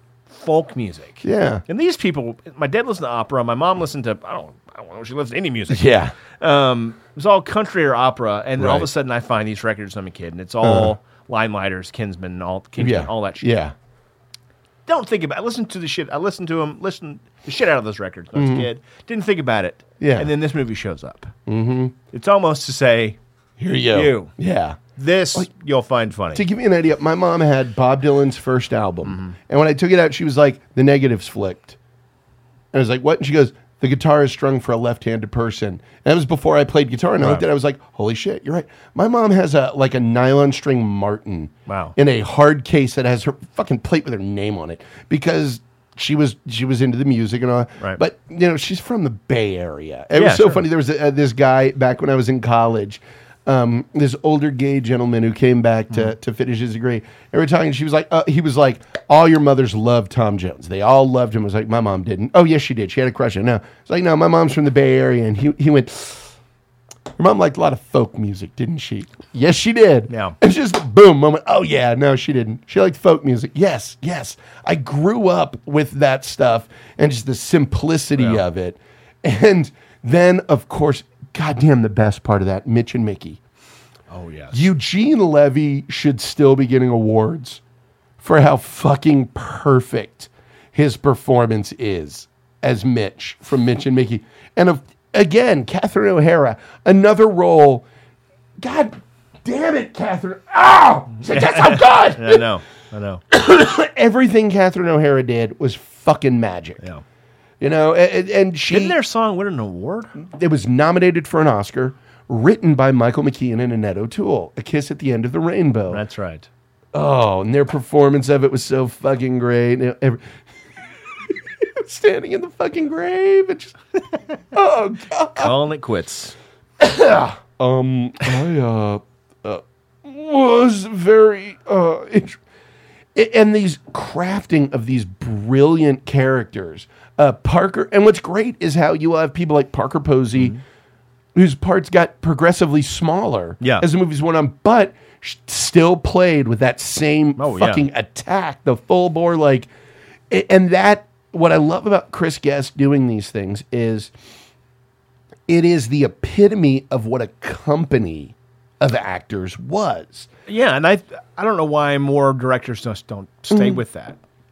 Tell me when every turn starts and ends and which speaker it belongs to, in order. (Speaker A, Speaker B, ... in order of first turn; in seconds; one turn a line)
Speaker A: 0.3-13.5
Speaker B: 1.2-1.6
Speaker B: 5.7-6.1
Speaker B: 8.6-8.9
Speaker B: 10.6-10.9
Speaker B: 12.8-13.7
Speaker A: 14.8-21.3
Speaker B: 18.4-18.7
Speaker B: 20.0-20.3
Speaker B: 21.5-21.9
Speaker A: 22.1-23.2
Speaker B: 23.6-24.8
Speaker A: 23.9-24.3
Speaker A: 24.9-26.4
Speaker B: 26.3-31.8
Speaker A: 29.0-29.4
Speaker B: 32.7-66.3
Speaker A: 37.2-37.5
Speaker A: 41.7-41.9
Speaker A: 50.1-50.6
Speaker B: 67.2-83.4
Speaker A: 70.1-70.3
Speaker A: 84.1-84.6
Speaker B: 84.5-87.6
Speaker B: 88.2-97.8
Speaker B: 98.6-102.4
Speaker A: 101.3-103.2
Speaker B: 103.3-106.8
Speaker B: 107.6-109.0
Speaker A: 108.7-110.1
Speaker B: 110.2-116.0
Speaker A: 115.9-116.5
Speaker B: 116.9-120.2
Speaker B: 121.8-123.7
Speaker B: 124.5-125.5
Speaker A: 125.4-126.3
Speaker B: 126.8-132.4
Speaker B: 133.1-140.5
Speaker A: 140.3-140.6
Speaker B: 141.3-149.7
Speaker A: 143.6-143.8
Speaker A: 147.4-147.8
Speaker B: 150.3-154.1
Speaker B: 155.5-160.3
Speaker A: 160.5-164.2
Speaker B: 163.5-163.8